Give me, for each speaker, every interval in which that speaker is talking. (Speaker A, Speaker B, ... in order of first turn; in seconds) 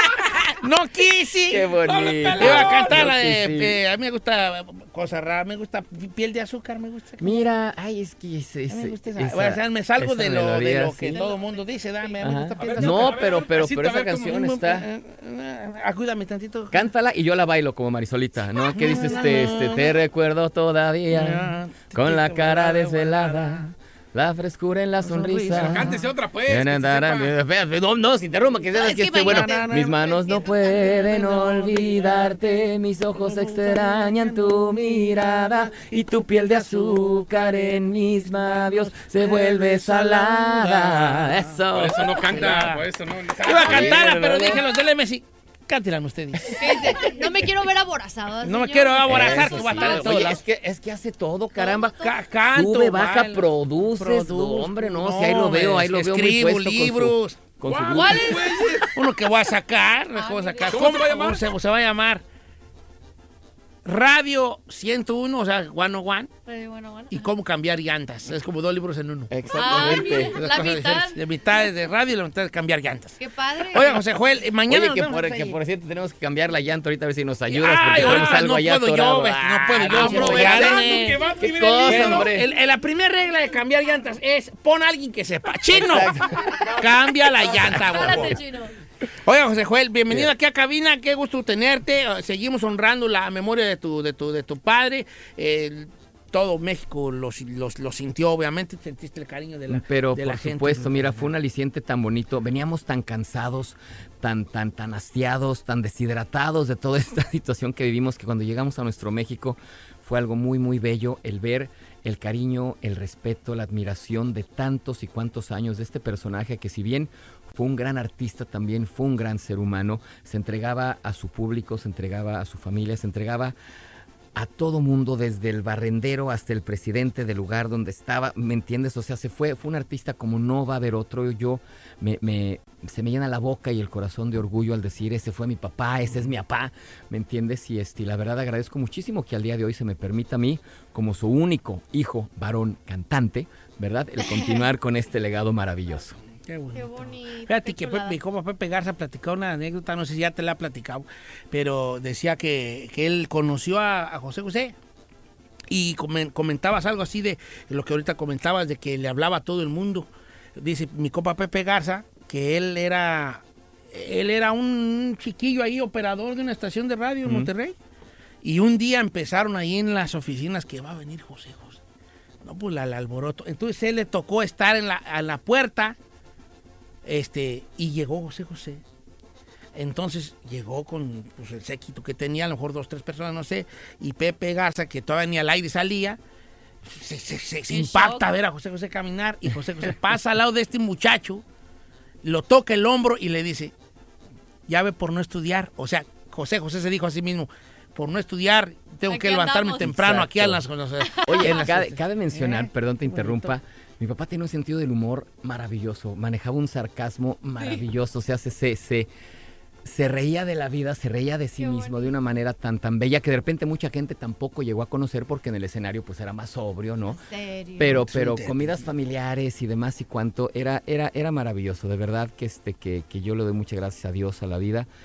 Speaker A: 0.6-1.7, 2.4-7.5, 8.7-16.8, 18.7-20.0, 21.1-23.7, 25.0-26.0, 28.8-32.3, 33.2-34.8, 39.0-41.6, 42.3-42.9, 43.4-47.2, 48.4-50.4, 52.0-57.4, 58.9-62.2, 63.9-66.3, 67.1-73.2, 73.7-75.6, 77.5-88.4, 89.2-101.3, 146.5-154.8, 155.7-167.8, 168.4-171.8, 172.4-176.0, 177.0-178.8, 179.8-186.2, 186.9-191.4, 192.2-193.7, 194.7-203.5, 217.8-218.9
Speaker B: 1.5-3.8, 7.2-11.2, 12.2-14.9, 16.7-25.9, 26.5-42.4, 43.6-44.6, 49.1-52.0, 52.5-58.5, 69.3-70.4, 74.7-80.8, 81.4-82.5, 85.7-86.5, 87.6-88.3, 99.7-123.6, 124.3-146.2, 199.8-200.6, 201.2-209.1, 209.8-217.2, 217.8-224.9
Speaker C: 1.8-3.1, 12.6-14.2, 25.5-27.3, 41.7-44.0, 57.6-58.9, 60.7-61.4, 79.9-82.3
Speaker D: 11.2-12.2, 29.1-29.7, 46.6-50.3, 51.6-52.1, 57.9-58.8, 60.1-61.2, 66.5-67.3, 69.5-71.2, 73.2-74.0, 80.1-81.4, 87.7-88.7, 146.7-148.2, 187.7-188.2, 199.1-199.9, 201.0-201.6, 211.6-212.1, 217.2-218.0